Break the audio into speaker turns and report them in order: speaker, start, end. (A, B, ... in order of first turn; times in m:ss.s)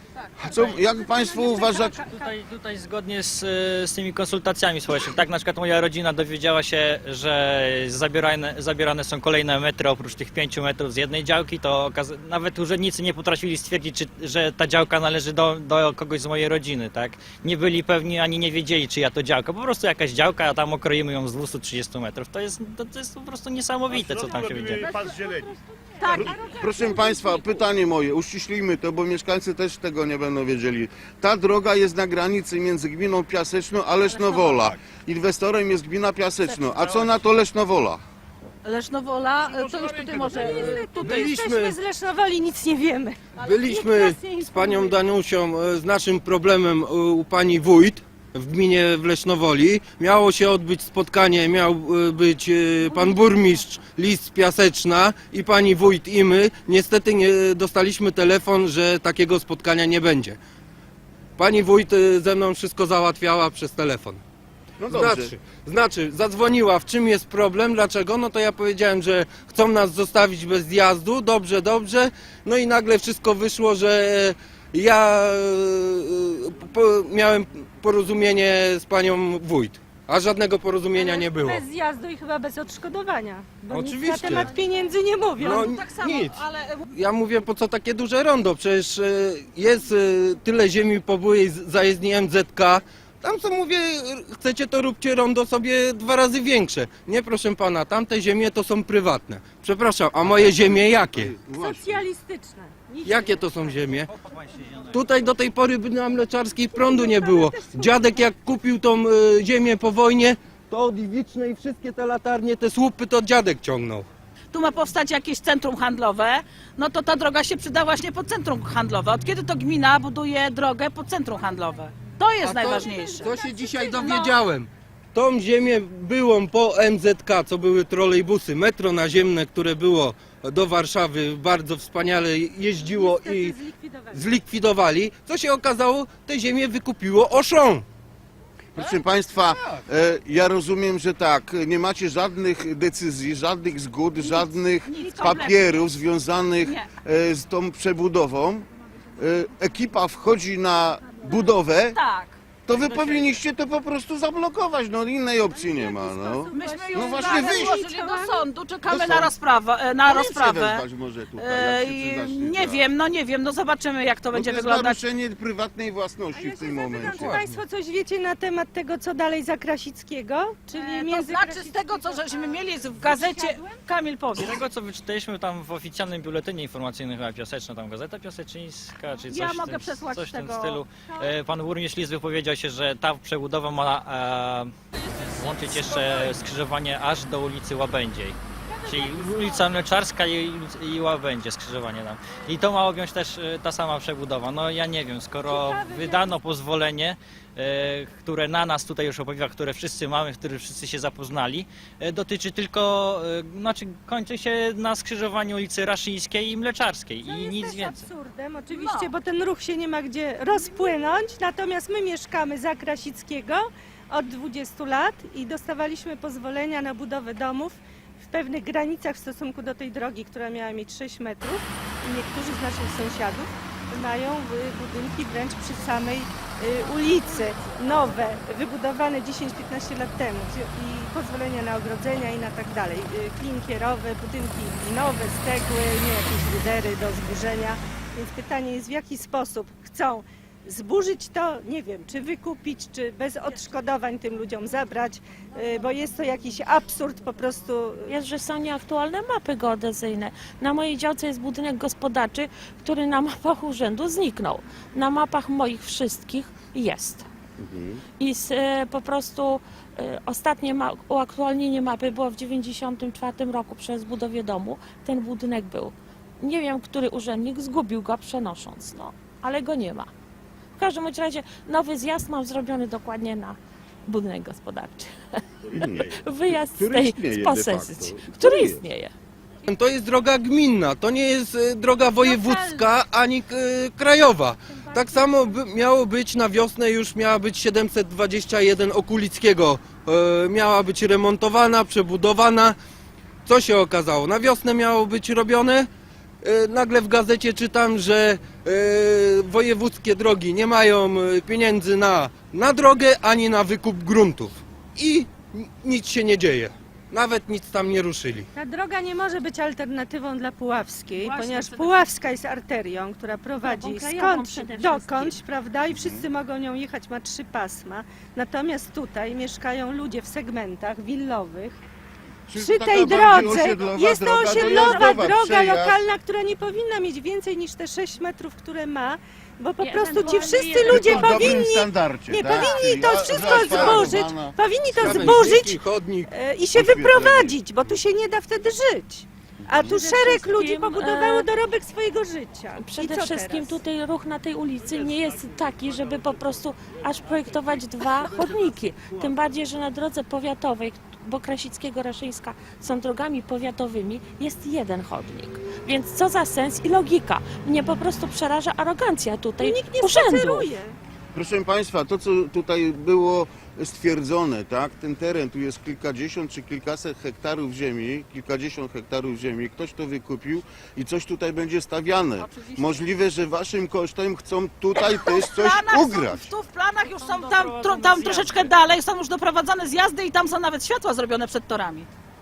0:00.4-0:02.0 A
0:00.8-0:02.3 B
0:02.0-0:24.9 C
0:24.9-0:25.4 B
0:26.0-0:26.4 D
0:26.1-0:27.5 B
0:26.1-0:38.0 A
0:34.1-0:34.7 D
0:38.6-0:41.3 D
0:40.1-0:45.0 B
0:40.4-0:41.8 E
0:43.4-1:00.4 E
1:01.4-1:04.2 E
1:04.8-1:05.3 A
1:04.9-1:21.6 E
1:20.9-1:25.8 B
1:23.7-1:24.5 E
1:25.4-1:41.3 E
1:25.4-1:26.8 D
1:40.3-1:42.0 A
1:41.5-1:43.4 B
1:43.0-1:44.1 E
1:44.2-1:44.9 C
1:44.9-1:54.1 E
1:46.7-1:48.0 B
1:54.5-2:03.4 D
2:02.4-2:13.6 E
2:02.8-2:04.4 B
2:12.8-2:14.3 B
2:14.1-2:17.9 E
2:18.7-2:32.0 A
2:24.9-2:25.6 D
2:26.6-2:26.9 D
2:32.0-2:32.4 D
2:32.7-2:37.8 A
2:35.6-2:38.5 B
2:36.5-2:40.8 D
2:38.9-2:39.4 A
2:40.0-2:42.9 A
2:41.4-2:45.0 D
2:44.3-2:47.4 A
2:46.3-2:53.8 B
2:47.1-2:47.6 E
2:50.7-2:54.6 D
2:54.4-3:28.1 C
2:59.3-3:00.8 D
3:08.7-3:09.6 B
3:15.5-3:16.4 B
3:27.2-4:08.1 B
3:28.7-3:29.1 D
4:08.1-4:17.3 F
4:17.6-4:18.0 A
4:18.2-4:30.1 F
4:30.8-4:39.1 F
4:35.7-4:38.8 A
4:39.6-4:52.8 E
4:42.2-4:42.8 D
4:45.0-4:45.4 B
4:53.4-4:55.9 E
4:56.4-5:08.5 E
5:08.5-5:21.8 B
5:11.1-5:12.1 D
5:13.6-5:15.4 F
5:15.9-5:16.2 A
5:22.5-5:26.0 A
5:22.6-5:43.8 B
5:29.8-5:31.6 F
5:30.9-5:34.6 A
5:33.7-5:34.0 E
5:35.0-5:36.3 E
5:36.7-5:37.6 A
5:40.0-5:41.5 F
5:42.8-6:00.7 F
5:59.6-6:01.0 B
6:01.3-6:16.5 A
6:12.4-6:13.0 D
6:15.0-6:22.1 D
6:17.0-6:18.7 C